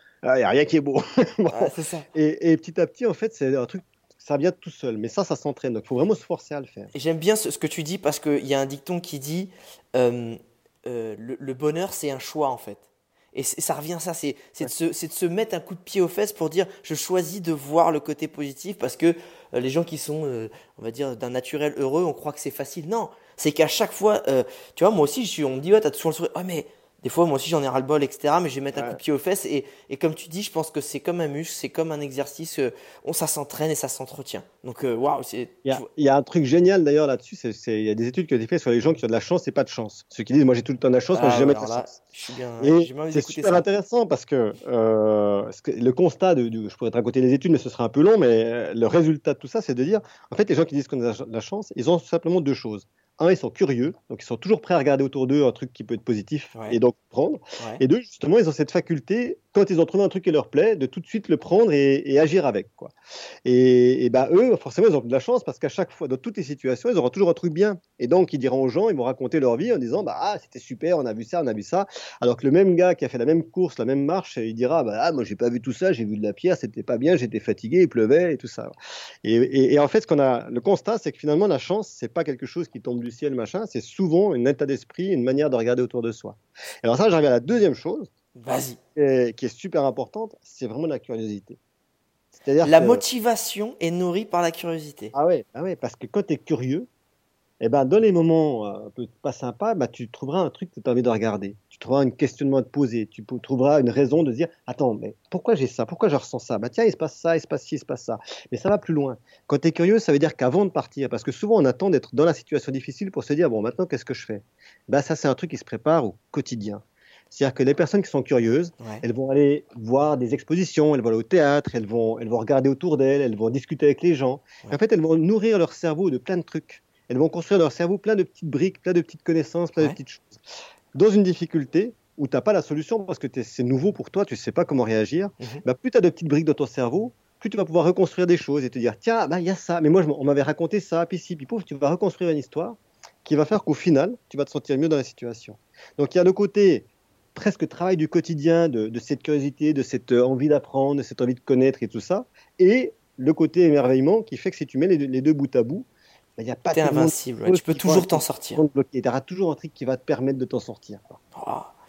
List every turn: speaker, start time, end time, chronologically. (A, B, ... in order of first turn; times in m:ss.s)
0:00.2-0:06.9 A
0:01.5-0:02.1 B
0:06.9-0:35.8 B
0:28.7-0:29.0 A
0:35.6-0:42.0 A
0:41.1-0:43.7 B
0:42.6-1:02.9 A
1:03.4-1:18.7 A
1:19.2-1:31.6 A
1:28.4-1:28.8 B
1:32.3-1:33.0 A
1:32.6-1:35.1 B
1:35.1-1:36.9 A
1:37.6-2:10.4 A
2:10.9-2:41.2 A
2:36.7-2:38.6 B
2:41.4-2:41.7 B